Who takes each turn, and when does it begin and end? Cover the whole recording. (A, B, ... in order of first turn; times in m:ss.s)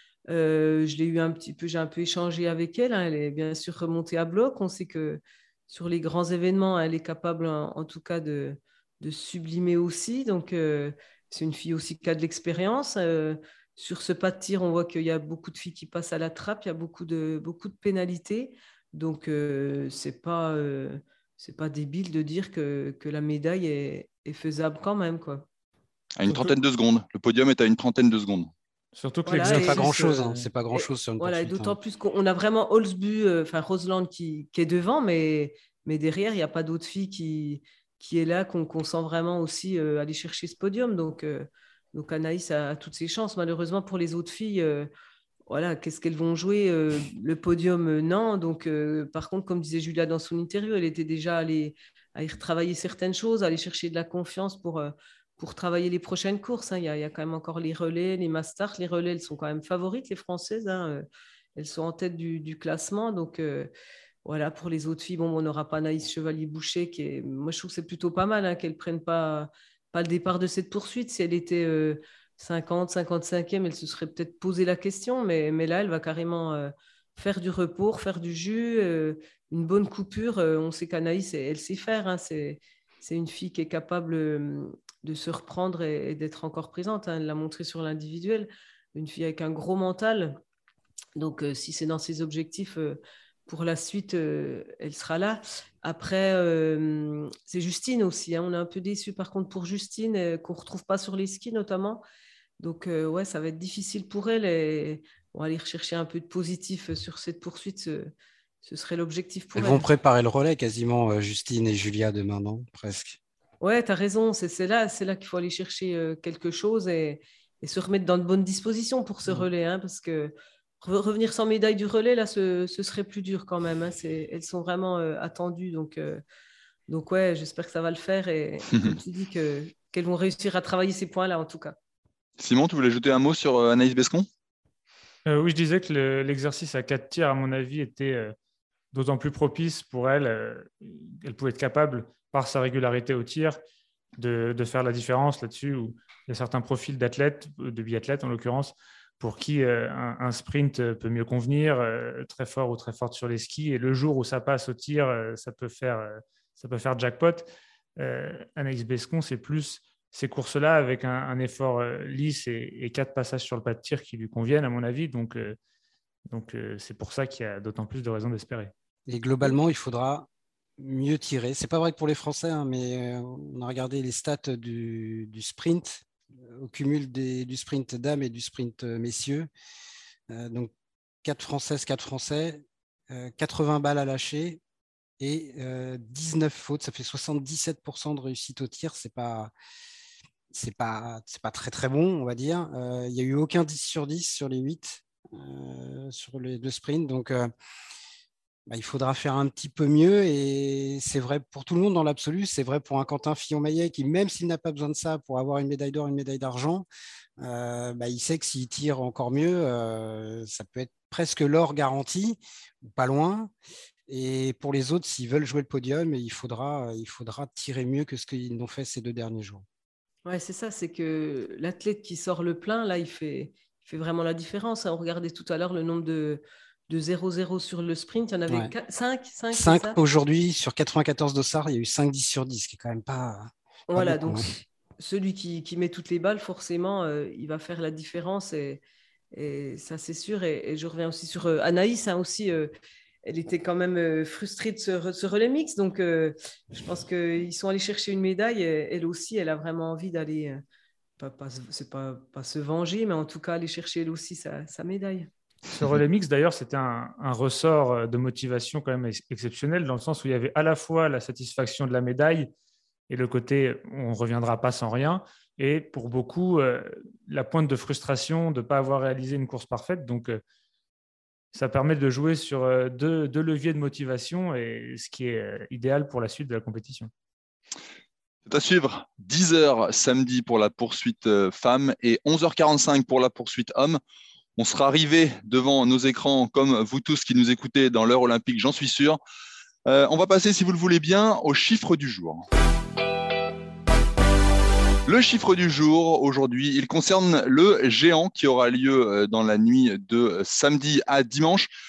0:00.3-0:25.4 A
0:26.2-0:28.5 B
0:26.2-0:26.5 C
0:29.0-0:30.5 C
0:29.2-0:30.0 A
0:29.4-0:31.8 D
0:30.7-0:44.9 A
0:45.5-1:01.0 A
1:01.6-1:03.7 A
1:04.2-1:30.4 A
1:31.2-1:42.0 A
1:42.6-1:48.1 A
1:48.6-1:49.9 A
1:49.6-1:53.2 D
1:53.6-2:06.2 A
2:06.9-2:11.8 A
2:08.7-2:08.9 B
2:12.4-2:14.3 B
2:15.3-2:18.4 C
2:18.9-2:23.6 C
2:24.2-2:45.6 C
2:46.3-2:48.7 C
2:49.1-2:59.5 D
3:00.3-3:00.7 D
3:01.2-3:04.6 D
3:05.2-3:09.5 D
3:10.5-3:17.5 D
3:18.7-3:26.8 D
3:27.4-3:33.5 D
3:34.1-3:39.6 D
3:40.2-3:50.0 A
3:49.5-3:54.5 D
3:53.9-3:58.8 A
3:59.3-4:02.7 A
4:03.2-4:10.6 A
4:11.2-4:15.3 A
4:15.7-4:22.5 C
4:23.1-4:30.4 C
4:31.5-4:37.1 C
4:38.5-4:44.0 B
4:44.6-4:49.2 B
4:49.8-4:52.4 B
4:55.1-5:01.7 B